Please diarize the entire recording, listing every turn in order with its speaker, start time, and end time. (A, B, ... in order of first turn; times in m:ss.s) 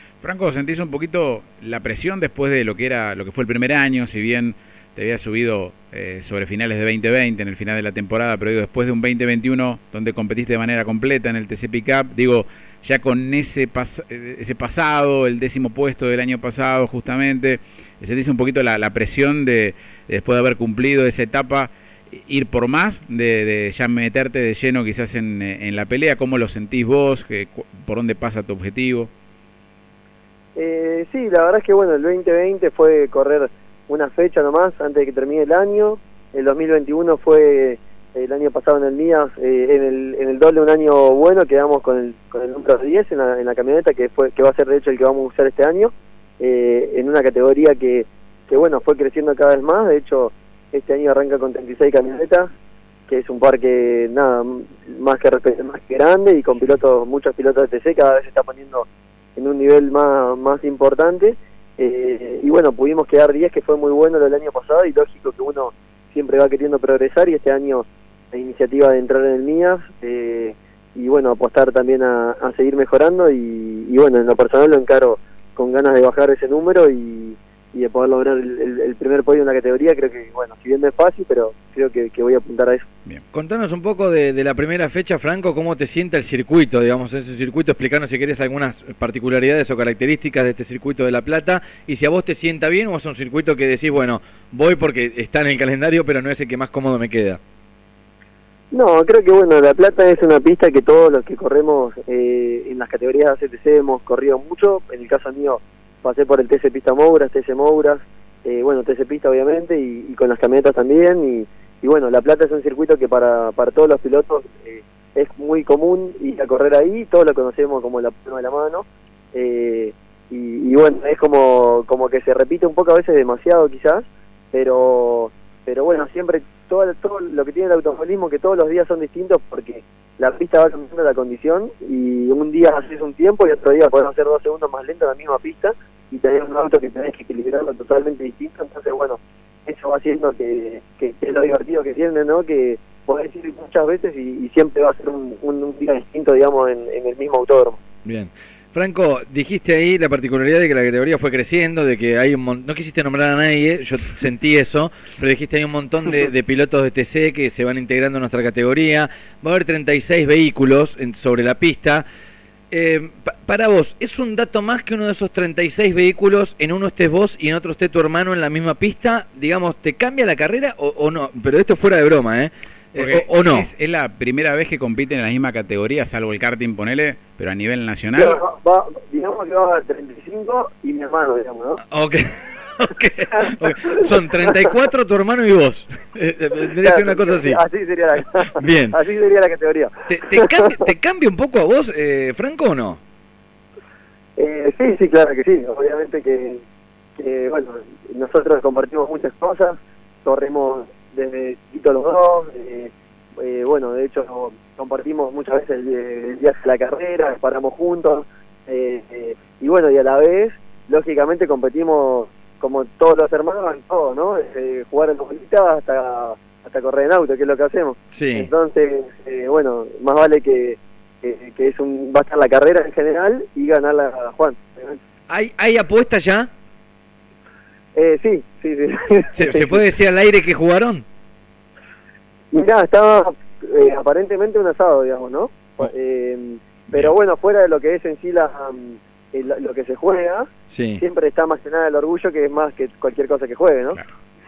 0:00.2-0:29.1 A
0:30.6-0:52.5 B
0:53.1-1:22.8 B
1:23.3-1:37.4 C
1:38.7-2:27.8 B
2:28.0-2:42.0 C
2:42.7-2:53.7 C
2:53.0-2:58.4 A
2:58.1-3:01.8 B
3:01.9-3:07.6 C
3:03.4-3:04.7 B
3:06.8-3:10.8 B
3:08.6-3:09.0 C
3:10.1-3:13.0 C
3:14.4-3:16.6 B
3:17.2-3:45.0 B
3:38.1-3:38.5 C
3:45.3-3:46.5 C
3:48.0-3:49.8 B
3:49.3-3:51.0 C
3:52.5-4:00.5 B
4:00.7-4:01.0 C
4:01.0-4:04.0 B